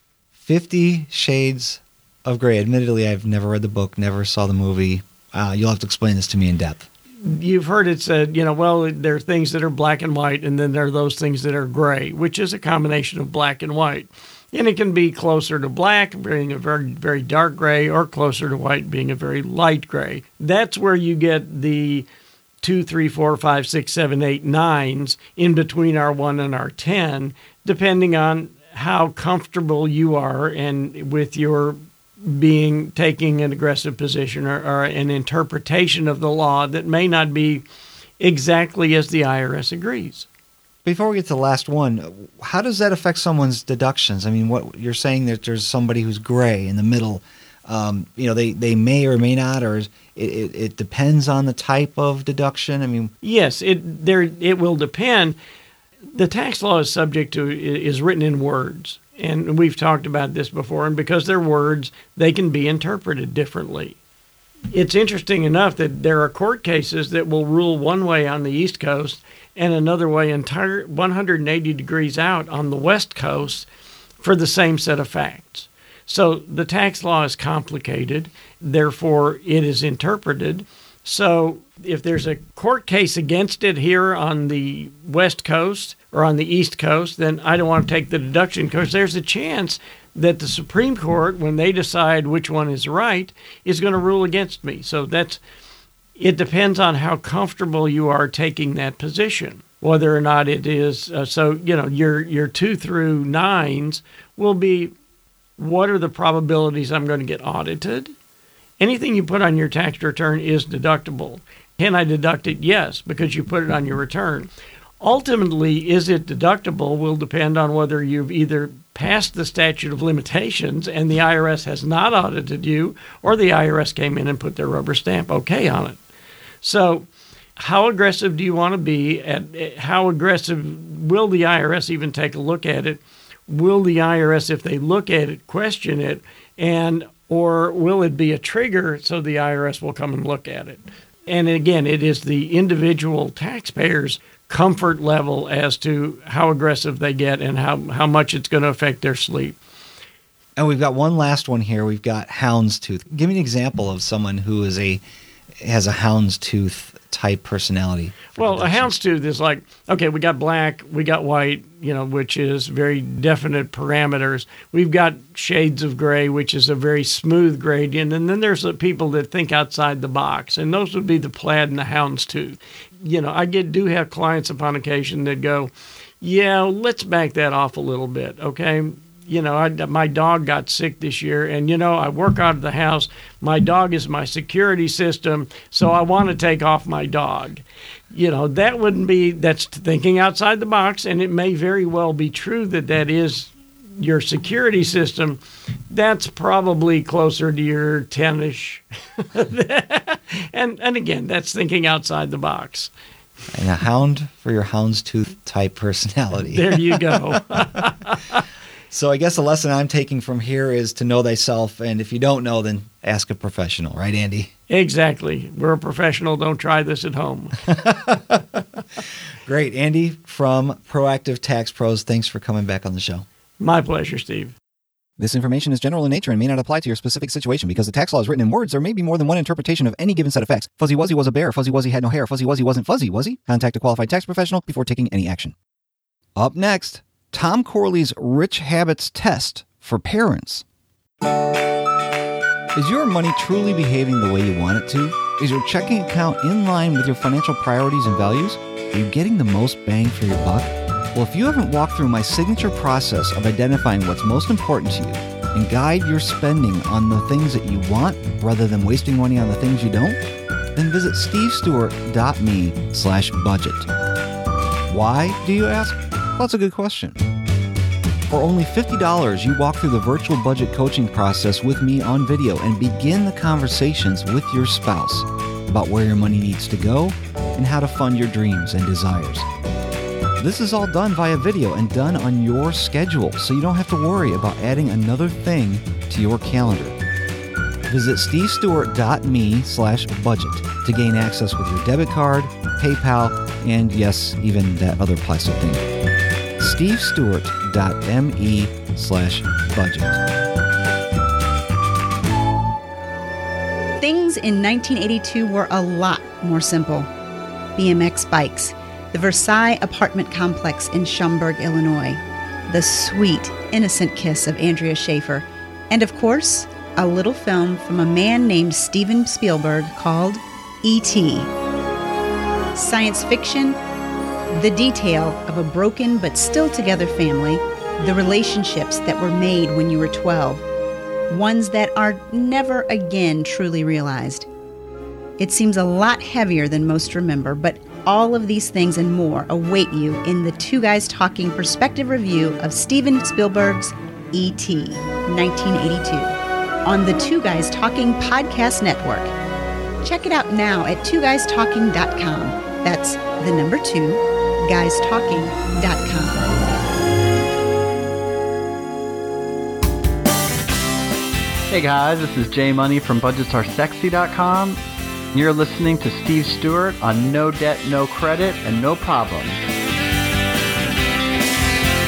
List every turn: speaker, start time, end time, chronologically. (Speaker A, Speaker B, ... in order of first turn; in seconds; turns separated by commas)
Speaker A: 0.4-6.9, Speaker B: 7.2-22.1, Speaker B: 22.6-37.6, Speaker B: 38.2-40.3, Speaker A: 40.9-53.1, Speaker B: 53.2-55.4, Speaker B: 56.1-64.0, Speaker B: 64.7-73.7, Speaker B: 74.2-95.4, Speaker B: 96.2-104.9, Speaker B: 105.6-108.1, Speaker B: 108.8-114.5, Speaker B: 115.0-126.0, Speaker B: 126.6-149.6, Speaker A: 150.6-155.0, Speaker A: 155.6-158.9, Speaker B: 158.3-202.9, Speaker A: 203.5-207.7, Speaker B: 206.5-208.4, Speaker A: 208.9-214.5, Speaker B: 214.7-217.6, Speaker A: 217.7-223.3, Speaker B: 223.6-224.6, Speaker A: 225.2-235.6, Speaker A: 236.4-240.7, Speaker A: 242.8-260.2, Speaker A: 260.8-263.9, Speaker A: 264.9-267.2, Speaker A: 268.3-279.5, Speaker A: 280.4-287.0, Speaker A: 287.9-295.9, Speaker A: 296.6-300.2, Speaker C: 304.0-307.1, Speaker C: 307.8-321.5, Speaker C: 322.8-323.8, Speaker C: 324.6-330.6, Speaker C: 331.3-334.5, Speaker C: 335.4-346.3, Speaker C: 346.9-349.3, Speaker C: 350.0-356.4, Speaker D: 361.7-364.8, Speaker D: 365.4-369.6